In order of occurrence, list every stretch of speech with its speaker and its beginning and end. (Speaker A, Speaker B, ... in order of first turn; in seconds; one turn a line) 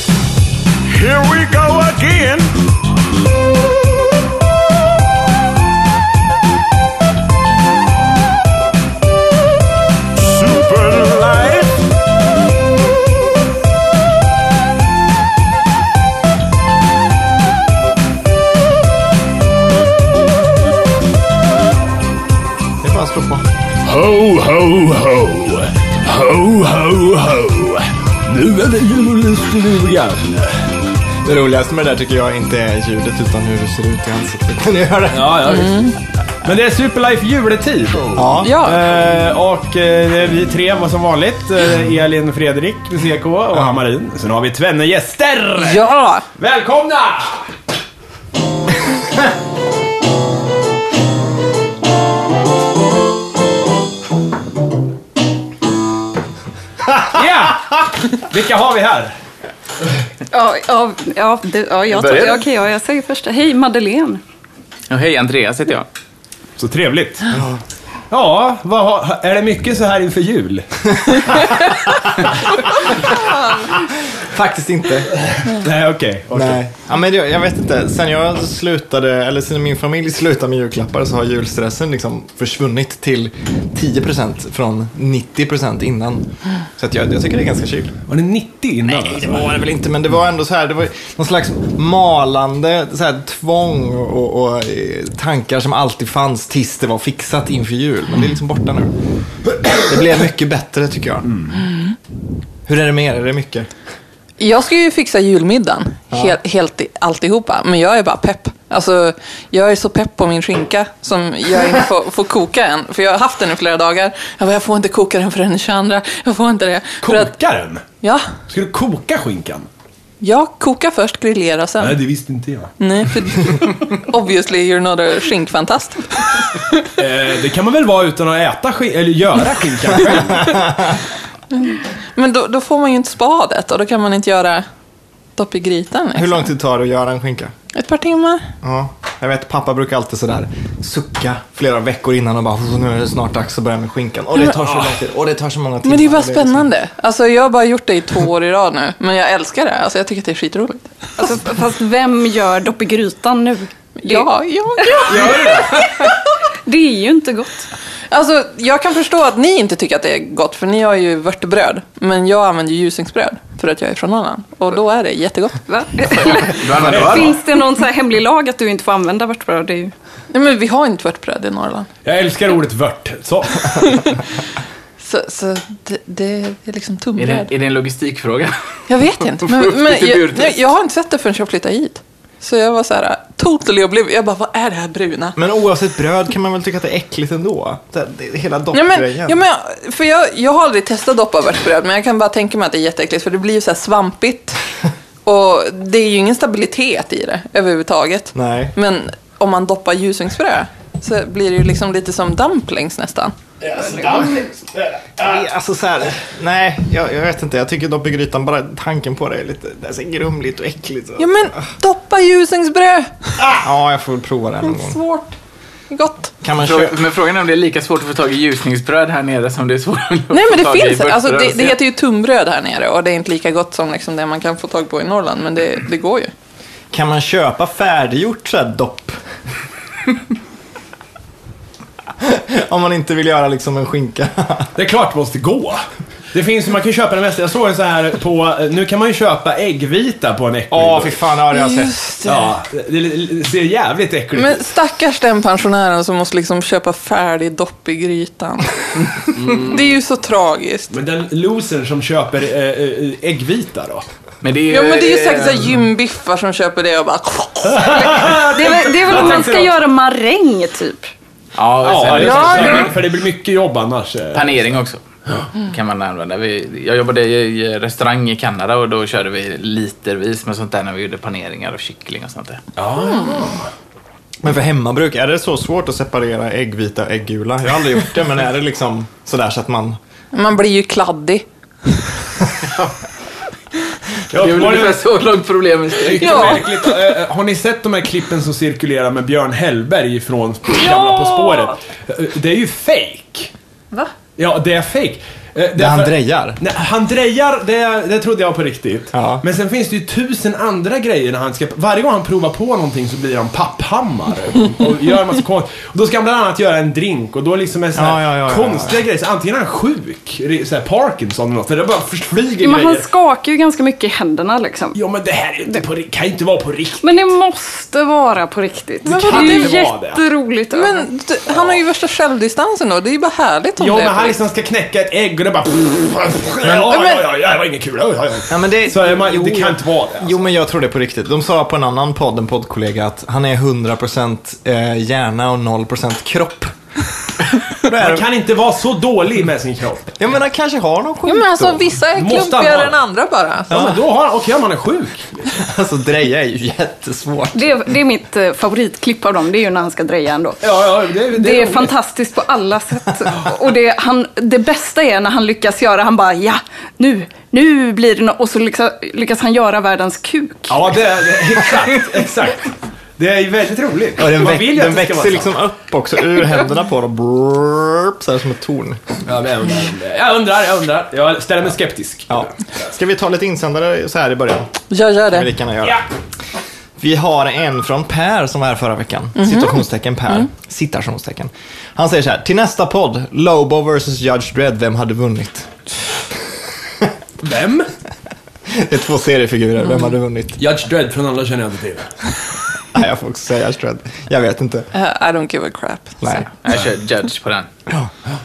Speaker A: 0.9-2.5
Speaker A: 10.2-11.7
Speaker B: 22.8-23.5
Speaker C: 23.8-30.7
Speaker B: 31.2-35.6
Speaker C: 35.1-35.9
Speaker D: 35.4-36.0
Speaker C: 36.4-45.9
Speaker B: 38.1-38.6
Speaker D: 38.4-38.8
Speaker D: 45.6-46.3
Speaker C: 46.4-47.5
Speaker C: 57.0-59.1
Speaker E: 60.3-64.2
Speaker F: 61.9-62.5
Speaker F: 64.9-65.9
Speaker C: 66.6-67.3
Speaker B: 67.3-67.6
Speaker C: 68.1-71.6
Speaker B: 74.2-75.1
Speaker C: 75.3-76.6
Speaker B: 76.3-88.0
Speaker C: 88.1-89.5
Speaker B: 88.8-98.9
Speaker B: 99.7-101.5
Speaker B: 102.7-103.7
Speaker D: 104.4-117.3
Speaker C: 117.0-117.8
Speaker D: 118.0-118.3
Speaker C: 118.5-119.7
Speaker D: 120.2-122.0
Speaker C: 121.8-122.7
Speaker D: 122.8-126.4
Speaker C: 127.0-130.7
Speaker B: 130.4-130.9
Speaker D: 131.5-134.7
Speaker D: 135.4-136.5
Speaker B: 136.2-137.5
Speaker D: 137.7-138.5
Speaker B: 138.6-146.7
Speaker D: 145.8-150.9
Speaker E: 151.2-157.7
Speaker D: 154.0-155.9
Speaker D: 158.1-165.7
Speaker E: 165.7-169.9
Speaker F: 166.1-167.4
Speaker C: 166.8-167.3
Speaker D: 170.3-171.9
Speaker C: 172.0-174.0
Speaker D: 173.8-174.2
Speaker D: 175.0-177.5
Speaker F: 177.2-178.6
Speaker D: 178.9-185.4
Speaker F: 179.2-180.6
Speaker B: 185.4-189.4
Speaker D: 188.7-194.6
Speaker D: 195.2-203.3
Speaker B: 198.3-198.8
Speaker C: 203.6-205.4
Speaker B: 205.2-211.6
Speaker D: 211.2-213.4
Speaker B: 213.5-215.0
Speaker D: 214.7-215.3
Speaker D: 215.9-216.3
Speaker B: 216.4-217.0
Speaker F: 216.6-221.8
Speaker D: 220.3-226.3
Speaker B: 226.9-229.2
Speaker B: 232.2-234.7
Speaker C: 234.8-241.2
Speaker B: 240.7-242.0
Speaker D: 241.6-242.3
Speaker C: 242.2-244.6
Speaker D: 244.3-248.8
Speaker D: 249.3-250.9
Speaker C: 249.4-249.9
Speaker C: 250.9-254.1
Speaker F: 254.4-255.7
Speaker D: 254.7-258.1
Speaker C: 257.8-259.8
Speaker E: 257.9-261.1
Speaker F: 261.6-263.0
Speaker C: 261.8-264.7
Speaker D: 262.3-262.9
Speaker F: 264.3-265.0
Speaker F: 265.6-272.6
Speaker C: 272.8-273.7
Speaker B: 274.4-280.0
Speaker D: 280.3-281.4
Speaker C: 284.3-285.1
Speaker F: 284.3-286.6
Speaker C: 286.0-293.5
Speaker D: 286.2-286.9
Speaker D: 290.9-291.4
Speaker C: 294.4-313.1
Speaker B: 295.8-296.6
Speaker B: 299.1-299.4
Speaker B: 307.9-309.0
Speaker E: 312.6-315.0
Speaker C: 314.9-317.2
Speaker E: 317.0-321.1
Speaker D: 319.0-319.8
Speaker C: 319.1-320.2
Speaker D: 320.7-324.4
Speaker C: 323.8-330.4
Speaker B: 326.7-327.0
Speaker D: 326.7-327.2
Speaker B: 328.5-336.7
Speaker B: 337.9-338.3
Speaker C: 337.9-340.1
Speaker B: 340.2-341.9
Speaker D: 341.3-343.8
Speaker C: 342.1-343.0
Speaker B: 343.7-344.0
Speaker C: 343.7-345.6
Speaker B: 345.5-347.8
Speaker E: 347.5-350.6
Speaker C: 350.6-351.9
Speaker E: 351.3-360.9
Speaker C: 360.7-365.5
Speaker B: 364.2-369.2
Speaker C: 369.3-372.6
Speaker B: 372.3-374.7
Speaker D: 374.9-375.5
Speaker B: 375.3-376.0
Speaker B: 377.0-385.8
Speaker D: 379.4-379.7
Speaker C: 387.4-387.9
Speaker B: 388.7-390.6
Speaker C: 390.6-392.1
Speaker B: 392.9-394.9
Speaker D: 394.9-396.5
Speaker B: 396.2-396.5
Speaker F: 396.6-397.7